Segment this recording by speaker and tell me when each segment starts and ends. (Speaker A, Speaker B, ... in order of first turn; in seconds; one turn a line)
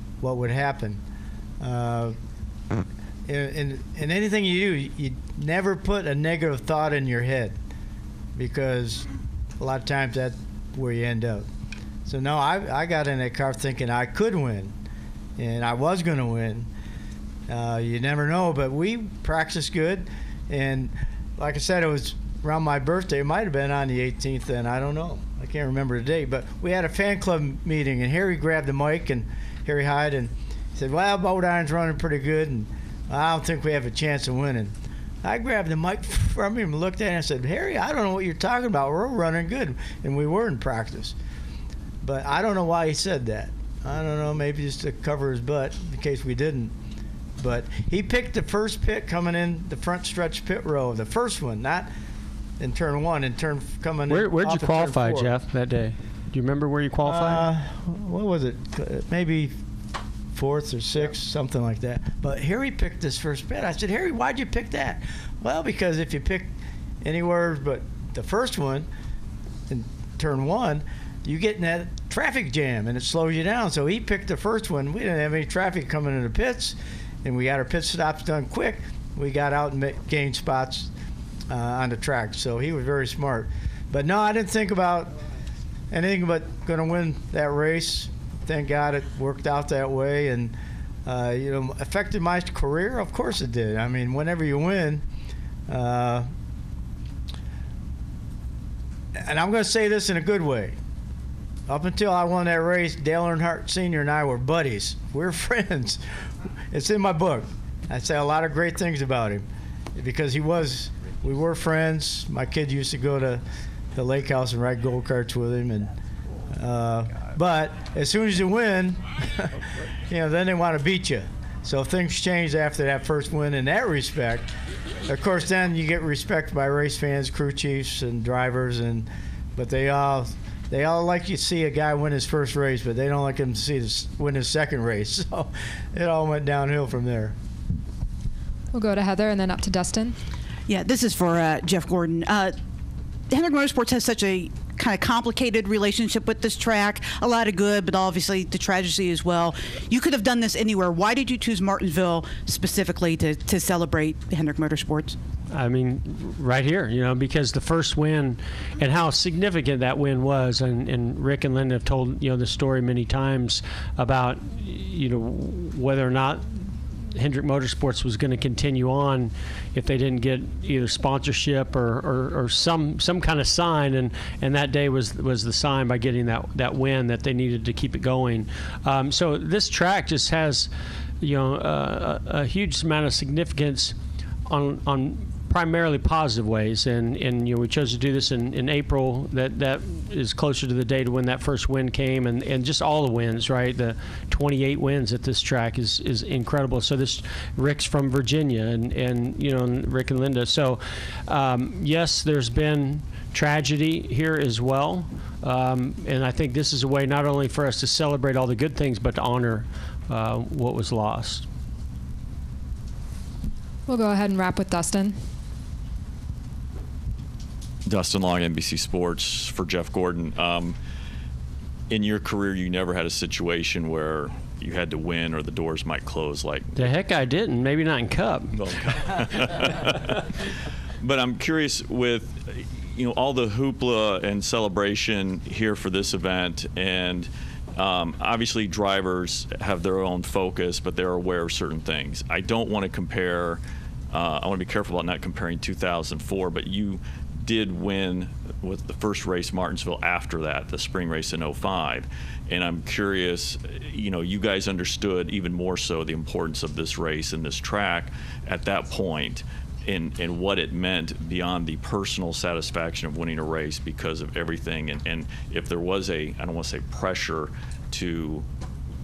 Speaker A: 0.2-1.0
Speaker A: 1.6-2.2
Speaker A: 3.3-7.5
Speaker A: 8.3-9.1
Speaker A: 9.6-11.4
Speaker A: 12.1-14.7
Speaker A: 15.4-16.7
Speaker A: 17.5-41.1
Speaker A: 42.0-46.7
Speaker A: 47.4-51.9
Speaker A: 52.6-55.3
Speaker B: 54.1-57.4
Speaker A: 57.0-59.5
Speaker A: 60.3-66.5
Speaker A: 67.0-68.9
Speaker A: 69.7-80.9
Speaker A: 81.5-85.1
Speaker A: 85.9-90.5
Speaker A: 91.0-95.0
Speaker A: 95.7-96.2
Speaker A: 99.2-100.8
Speaker A: 101.7-106.0
Speaker A: 106.7-109.4
Speaker A: 110.0-113.4
Speaker A: 113.9-115.9
Speaker A: 116.5-124.5
Speaker A: 125.1-137.3
Speaker C: 138.7-140.1
Speaker D: 140.7-142.6
Speaker D: 143.3-155.2
Speaker B: 155.5-183.9
Speaker B: 184.5-211.4
Speaker C: 213.9-215.2
Speaker E: 217.8-220.7
Speaker E: 221.9-226.9
Speaker B: 226.8-228.5
Speaker E: 228.5-230.3
Speaker E: 231.0-243.6
Speaker E: 244.1-268.4